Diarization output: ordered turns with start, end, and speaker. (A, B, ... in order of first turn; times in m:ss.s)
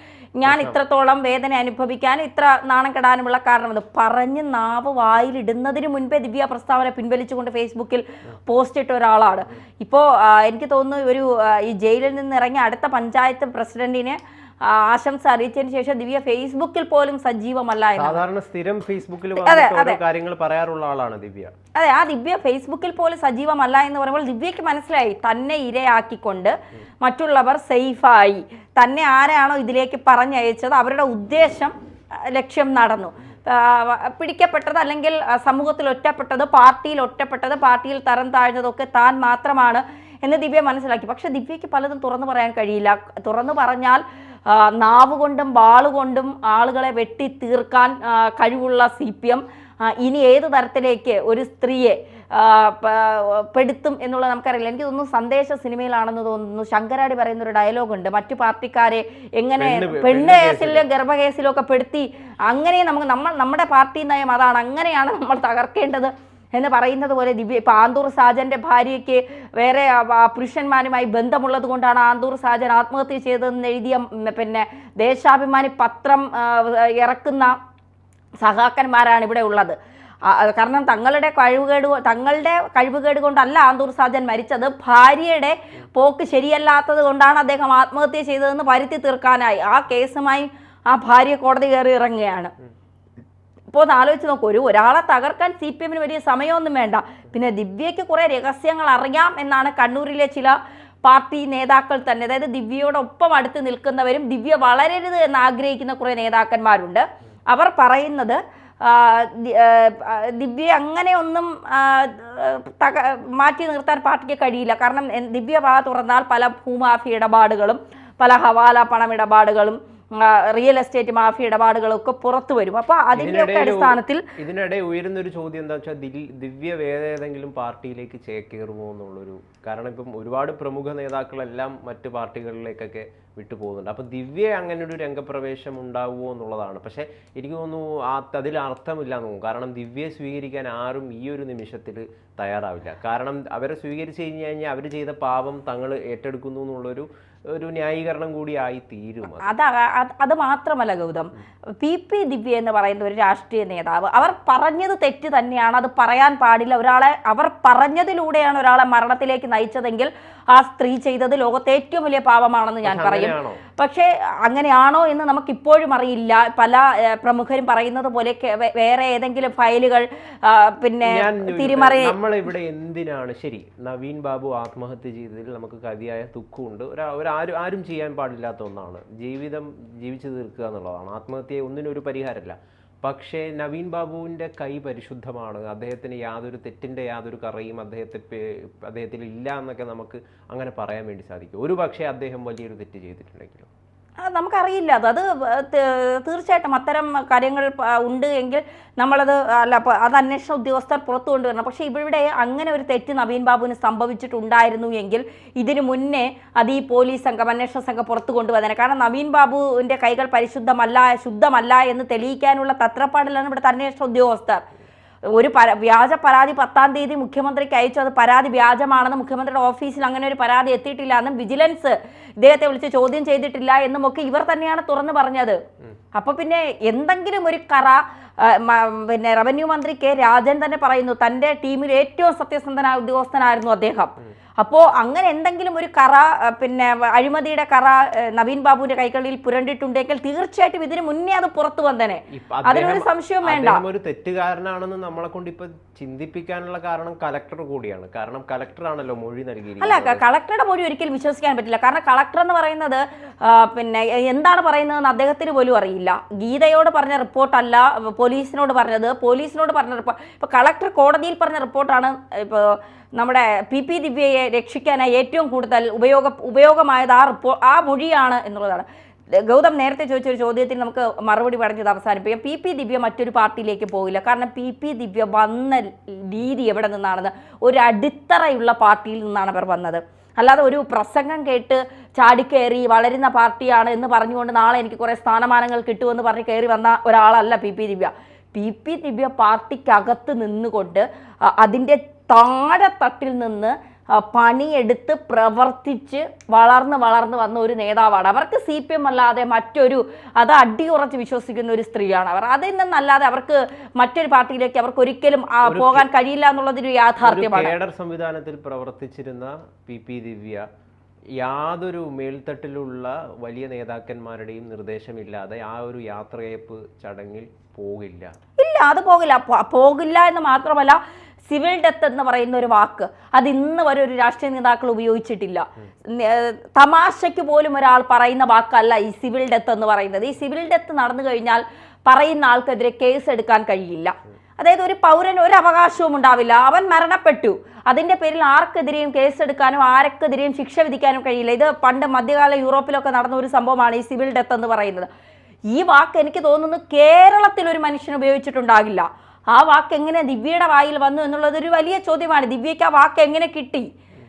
0:00.4-0:18.2 A
0:00.5-0:00.8 B
0:18.0-0:21.5 B
0:19.4-0:20.0 A
0:21.8-0:31.7 A
0:32.3-1:17.5 A
0:59.6-1:00.8 B
1:18.4-1:32.5 A
1:33.7-2:04.2 A
2:03.2-2:29.5 B
2:29.4-2:52.2 A
2:42.8-2:43.6 B
2:51.0-3:13.7 B
3:14.2-3:34.6 A
3:35.3-3:45.6 A
3:46.2-4:03.8 A
4:02.3-4:10.2 B
4:09.8-5:07.8 A
5:05.6-5:06.1 B
5:07.2-5:10.6 B
5:11.4-5:18.3 B
5:18.6-5:45.1 A
5:45.7-5:53.9 A